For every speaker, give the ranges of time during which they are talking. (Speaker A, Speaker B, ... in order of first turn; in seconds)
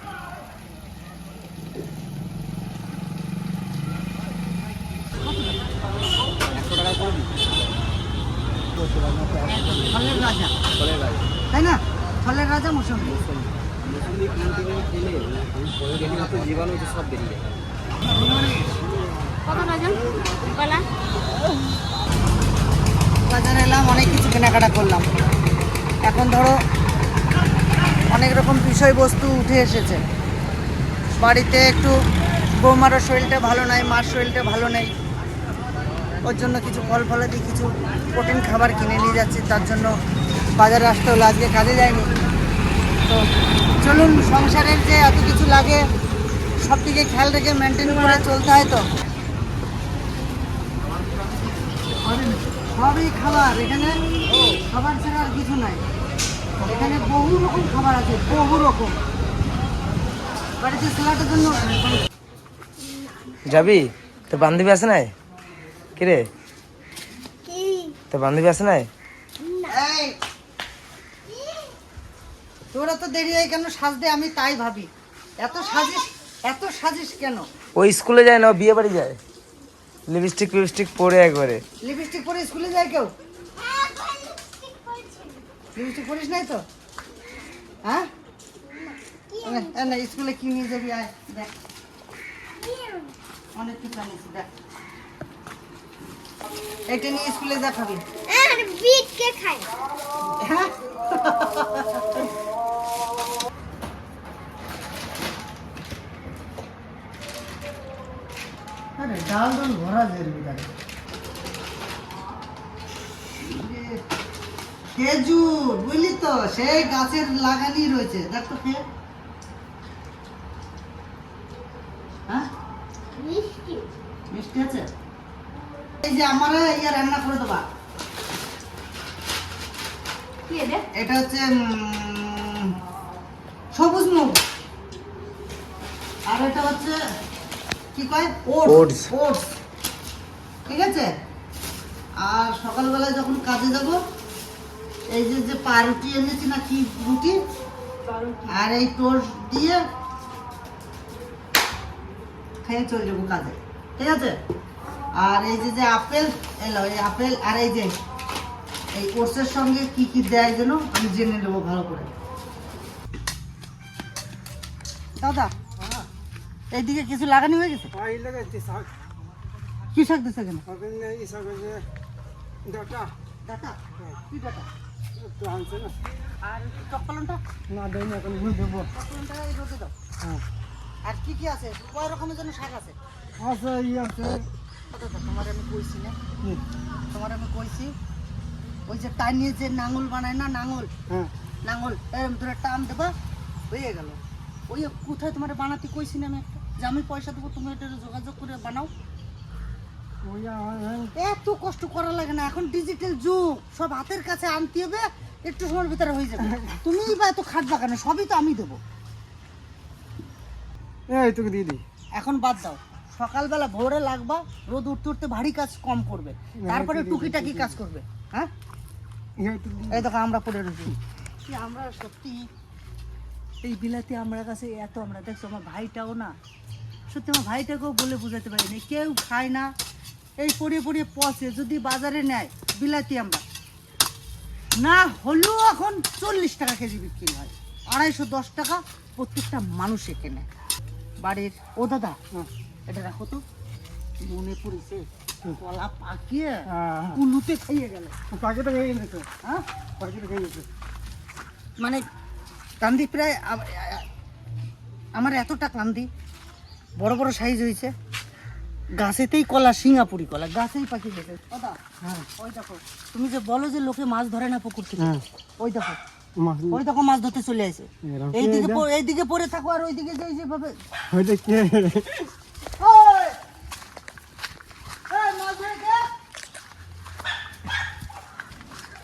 Speaker A: 5.2-5.6, 9.4-10.5, 11.5-13.2, 18.0-18.7, 23.2-25.1, 26.0-26.6, 28.1-30.0, 31.2-31.9, 32.5-34.9, 36.2-39.9, 40.6-42.1, 43.8-45.8, 46.6-48.9, 52.0-54.0, 54.5-55.8, 56.6-59.0, 60.6-62.0, 69.7-70.2, 72.7-77.5, 81.8-83.1, 85.7-86.6, 89.4-91.5, 93.5-94.5, 96.9-98.0, 100.4-102.2, 109.0-110.7, 113.4-114.0, 114.9-118.8, 124.3-124.9, 126.0-127.6, 130.9-132.7, 133.7-134.4, 136.3-136.9, 137.9-139.5, 140.7-141.1, 142.2-144.0, 145.1-147.4, 148.5-149.8, 152.6-154.4, 155.2-157.9, 158.9-162.1, 165.2-165.5, 166.7-167.9, 169.9-170.6, 173.4-174.7, 176.4-177.4, 178.9-179.9, 181.0-182.9, 184.9-186.2, 187.1-187.9, 188.9-190.9, 191.6-193.1, 193.7-198.9, 201.2-208.8, 212.2-218.5, 219.9-220.9, 221.5-222.4, 223.6-226.3, 227.1-229.7, 230.4-233.4, 234.8-240.5, 241.2-242.2, 242.9-243.4, 244.2-248.1, 252.8-254.0, 255.1-256.1, 257.0-257.9, 258.9-261.8, 262.4-266.0, 266.7-270.8, 272.8-273.4, 275.1-276.1
Speaker B: 19.5-19.9, 67.5-68.0, 83.6-85.4, 88.7-89.7, 92.6-93.1, 98.3-99.6, 123.2-123.8, 130.5-130.8
Speaker C: 63.4-65.1, 66.0-66.3, 68.1-68.9, 77.7-79.2, 80.1-81.6, 138.6-139.1
Speaker D: 167.9-168.9, 170.7-171.8, 172.6-173.1, 175.2-175.9, 177.7-178.9, 183.4-184.5, 200.2-201.1, 211.1-211.8, 216.7-217.7, 219.4-220.0, 246.7-247.2, 248.3-249.3, 250.0-250.7, 266.4-266.8, 268.0-268.8, 271.1-272.3